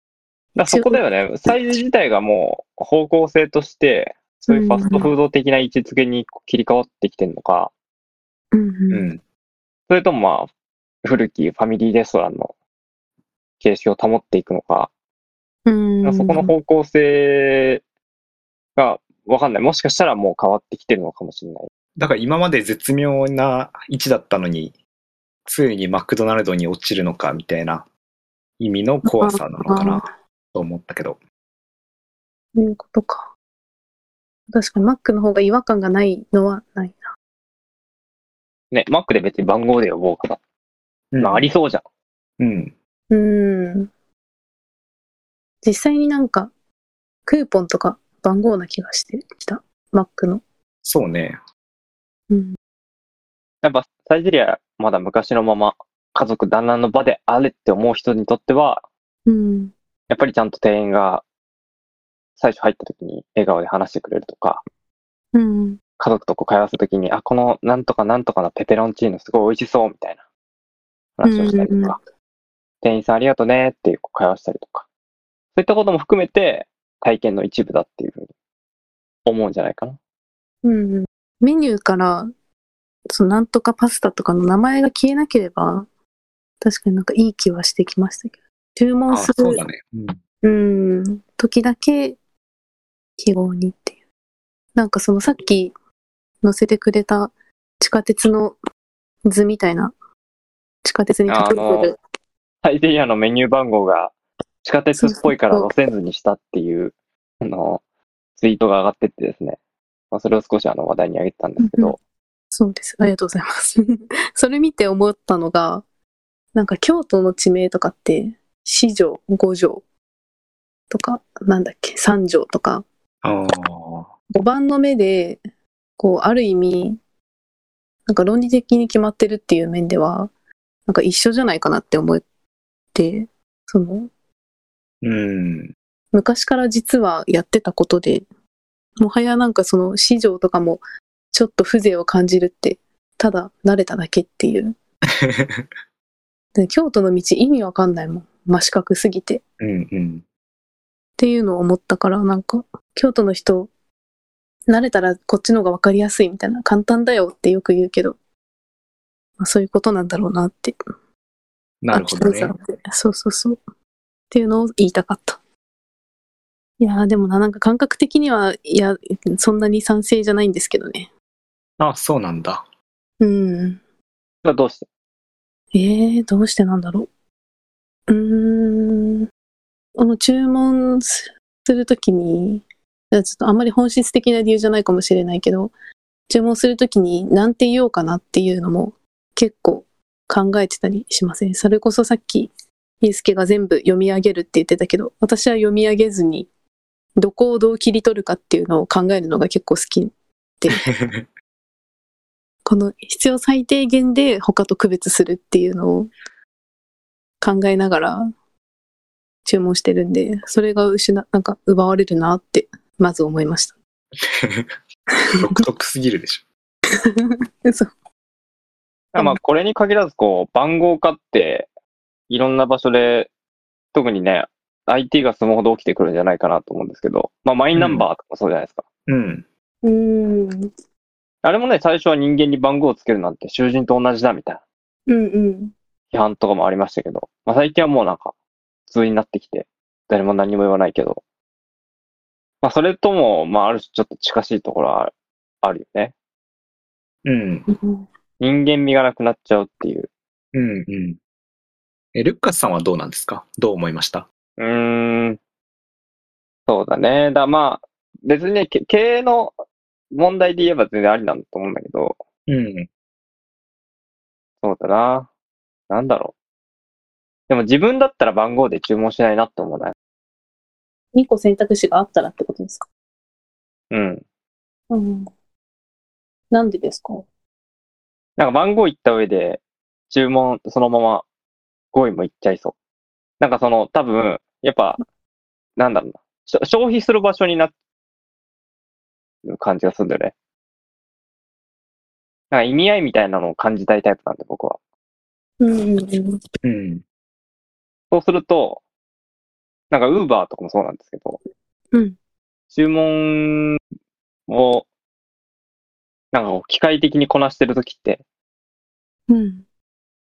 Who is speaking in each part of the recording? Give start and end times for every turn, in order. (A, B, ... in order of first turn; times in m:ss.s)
0:00.6-0:07.7 A
0:00.7-0:01.0 B
0:04.5-0:05.1 B
0:08.5-0:09.1 B
0:08.9-0:09.2 C
0:09.9-0:10.5 A
0:11.0-0:12.5 A
0:13.6-0:14.9 A
0:15.7-0:16.5 B
0:16.0-0:17.8 A
0:18.8-0:21.7 A
0:22.0-0:24.8 C
0:25.5-0:27.9 C
0:28.6-0:30.0 C
0:29.1-0:30.0 B
0:30.5-0:31.2 C
0:32.6-0:33.3 B
0:34.5-0:37.1 B
0:38.7-0:40.4 A
0:41.1-0:41.5 C
0:41.2-0:41.8 A
0:42.4-0:42.7 C
0:43.1-0:43.9 B
0:45.6-0:46.5 B
0:47.3-0:50.4 B
0:50.8-0:51.4 C
0:52.3-0:52.6 B
0:53.6-0:58.8 A
0:59.3-0:59.7 B
1:00.1-1:01.2 A
1:02.4-1:04.6 A
1:05.3-1:05.8 B
1:06.0-1:10.2 A
1:11.2-1:12.0 A
1:11.2-1:12.0 B
1:12.8-1:14.9 A
1:15.6-1:18.3 A
1:19.3-1:20.0 A
1:20.6-1:22.3 B
1:23.1-1:25.9 B
1:26.6-1:29.6 B
1:29.1-1:30.2 C
1:30.4-1:32.2 B
1:33.2-1:34.0 B
1:34.8-1:35.7 B
1:36.4-1:38.6 B
1:39.2-1:39.9 B
1:40.8-1:42.0 B
1:41.3-1:41.9 A
1:42.6-1:47.8 A
1:45.0-1:45.7 B
1:48.4-1:49.6 A
1:50.1-1:52.0 A
1:51.6-1:52.0 B
1:52.5-1:55.8 B
1:56.5-1:59.8 B
2:00.9-2:02.8 B
2:03.2-2:04.1 C
2:04.3-2:05.4 B
2:06.0-2:07.0 B
2:08.1-2:10.3 B
2:10.9-2:12.2 B
2:12.9-2:14.1 B
2:15.0-2:15.7 C
2:16.1-2:18.3 B
2:19.0-2:24.8 B
2:25.2-2:25.7 C
2:26.6-2:29.4 B
2:29.6-2:30.2 C
2:31.2-2:33.7 B
2:34.7-2:38.2 B
2:39.4-2:40.8 B
2:41.8-2:42.5 C
2:41.9-2:43.6 B
2:44.3-2:45.4 B
2:46.8-2:51.1 B
2:51.8-2:52.6 C
2:53.2-2:53.8 B
2:54.4-2:54.9 A
2:55.7-2:57.1 B
2:58.1-2:59.3 B
3:00.0-3:05.7 B
3:06.3-3:12.5 B
3:13.0-3:16.5 B
3:17.2-3:20.8 B
3:20.9-3:21.3 C
3:22.6-3:26.1 B
3:27.4-3:28.3 B
3:29.4-3:33.8 B
3:34.2-3:34.7 C
3:35.4-3:36.4 C
3:37.0-3:37.9 B
3:39.1-3:41.7 A
3:42.3-3:43.3 A
3:43.9-3:48.8 A
3:47.8-3:48.0 C
3:49.1-3:49.5 C
3:49.8-3:50.7 B
3:51.4-3:54.6 A
3:55.1-3:55.7 B
3:56.1-3:58.3 A
3:58.9-4:01.2 A
4:02.6-4:06.1 A
4:07.2-4:07.7 C
4:07.7-4:08.0 B
4:08.4-4:10.1 A
4:10.5-4:11.2 C
4:12.2-4:14.3 C
4:14.6-4:15.4 A
4:16.7-4:19.6 A
4:20.1-4:22.2 A
4:22.5-4:22.9 C
4:24.6-4:25.3 A
4:25.9-4:26.3 A
4:27.5-4:30.0 A
4:31.1-4:32.9 B
4:33.9-4:34.2 A
4:34.9-4:35.3 B
4:36.5-4:37.3 B
4:38.4-4:41.3 A
4:41.9-4:42.7 A
4:43.4-4:45.0 A
4:45.8-4:47.7 A
4:49.5-4:50.3 A
4:52.5-4:54.8 A
4:55.6-4:56.4 B
4:56.6-4:57.0 C
4:58.1-4:58.8 A
4:59.9-5:01.4 A
5:02.7-5:03.8 A
5:04.5-5:04.9 A
5:06.3-5:08.2 A
5:09.3-5:09.6 B